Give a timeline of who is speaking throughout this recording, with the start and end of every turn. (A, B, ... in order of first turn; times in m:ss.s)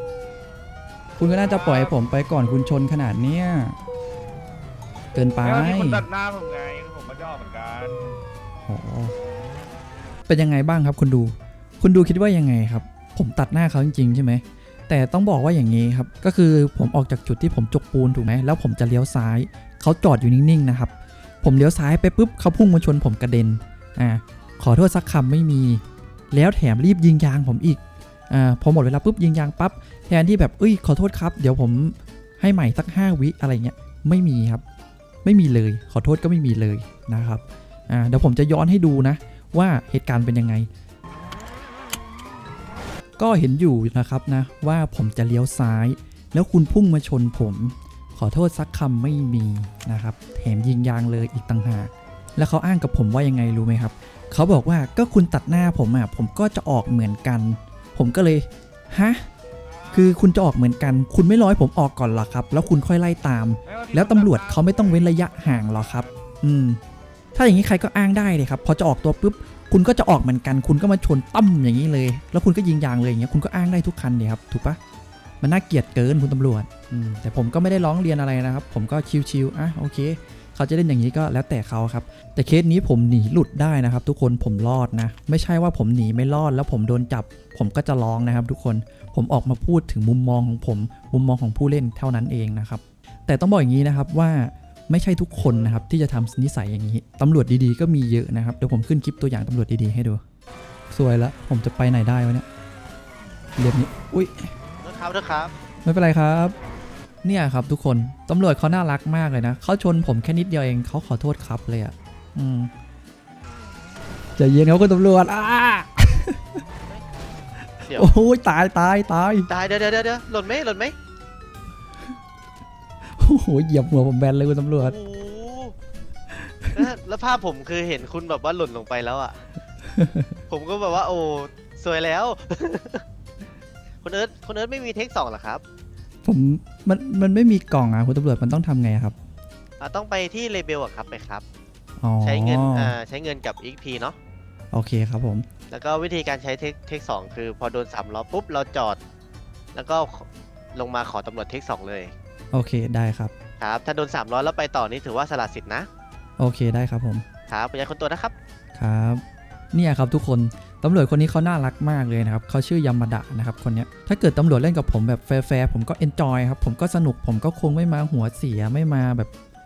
0:01.2-0:03.8 A
0:05.1-0:06.0 A
0:05.6-0:08.0 B
0:08.6-0:09.1 A
0:10.3-0:34.6 A
0:35.2-0:40.7 A
0:43.2-0:59.3 A
0:59.9-1:06.8 A
1:03.7-1:05.1 B
1:07.4-1:14.8 A
1:15.4-1:40.2 A
1:40.9-1:42.4 A
1:43.6-1:44.5 A
1:44.8-1:45.5 C
1:45.8-1:46.5 A
1:47.2-1:52.7 A
1:54.4-1:56.4 A
1:57.9-1:59.5 A
1:59.5-2:00.9 C
2:03.2-2:04.9 A
2:04.8-2:05.7 C
2:06.8-2:09.4 C
2:09.8-2:10.4 A
2:10.5-2:13.0 C
2:14.0-2:15.6 C
2:16.2-2:19.2 A
2:19.8-2:21.4 C
2:22.0-2:22.9 A
2:22.2-2:24.2 C
2:24.7-2:25.4 A
2:25.7-2:29.0 C
2:29.7-2:32.1 C
2:32.5-2:33.3 A
2:33.6-2:35.9 C
2:36.4-2:37.2 A
2:37.5-2:38.3 C
2:38.7-2:49.3 A